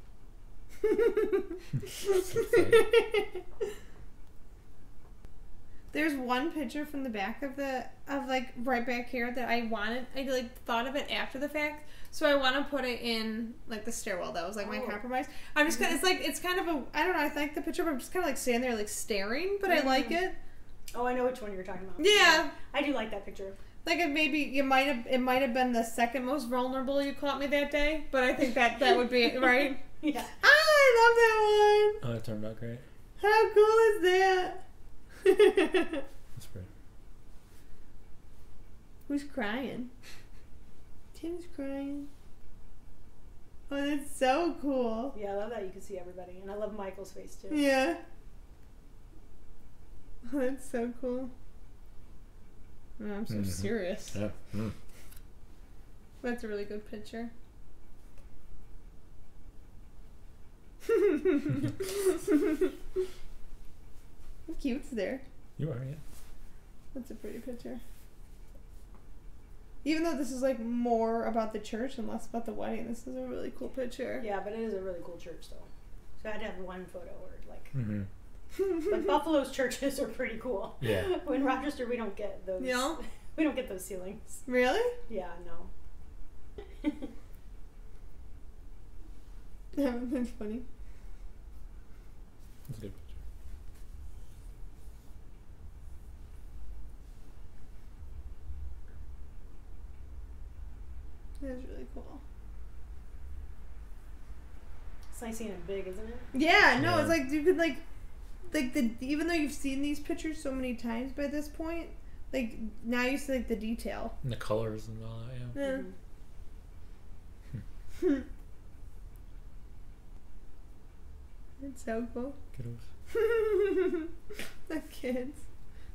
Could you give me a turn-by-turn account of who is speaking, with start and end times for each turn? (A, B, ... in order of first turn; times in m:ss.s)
0:00.8-0:03.4 A
0:02.4-0:02.8 B
0:05.9-0:20.4 A
0:14.6-0:15.0 C
0:19.7-0:20.2 C
0:20.9-0:23.6 C
0:22.0-0:22.5 A
0:23.8-0:29.8 A
0:30.0-0:30.3 C
0:30.4-0:32.0 A
0:32.0-0:32.8 B
0:33.2-0:34.6 A
0:35.2-0:36.0 A
0:36.4-0:36.7 B
0:39.1-0:39.9 A
0:41.1-0:42.1 A
0:43.7-0:45.1 A
0:45.1-0:47.6 C
0:47.5-0:48.0 A
0:50.2-0:51.3 A
0:53.0-0:54.2 A
0:53.3-0:54.8 B
0:56.2-0:57.3 A
1:00.8-1:02.7 A
1:04.5-1:05.2 A
1:05.6-1:06.0 B
1:06.9-1:07.8 A
1:09.8-1:14.3 A
1:14.2-1:15.7 C
1:16.2-1:17.7 C
1:17.7-1:18.1 B
1:18.8-1:24.4 C
1:20.8-1:21.1 B
1:22.6-1:23.0 A
1:24.5-1:25.0 A
1:25.1-1:25.7 C
1:29.7-1:30.6 A
1:32.7-1:33.1 B
1:41.4-1:42.2 A
1:45.1-1:46.3 C
1:46.3-1:47.8 A
1:46.7-1:47.2 B
1:48.5-1:54.1 A
1:54.2-1:55.6 B
1:55.5-1:55.8 A
1:55.6-1:55.9 C
1:58.0-1:58.2 A
2:01.6-2:02.4 A
2:02.5-2:02.8 B
2:03.1-2:04.1 A
2:04.7-2:05.4 A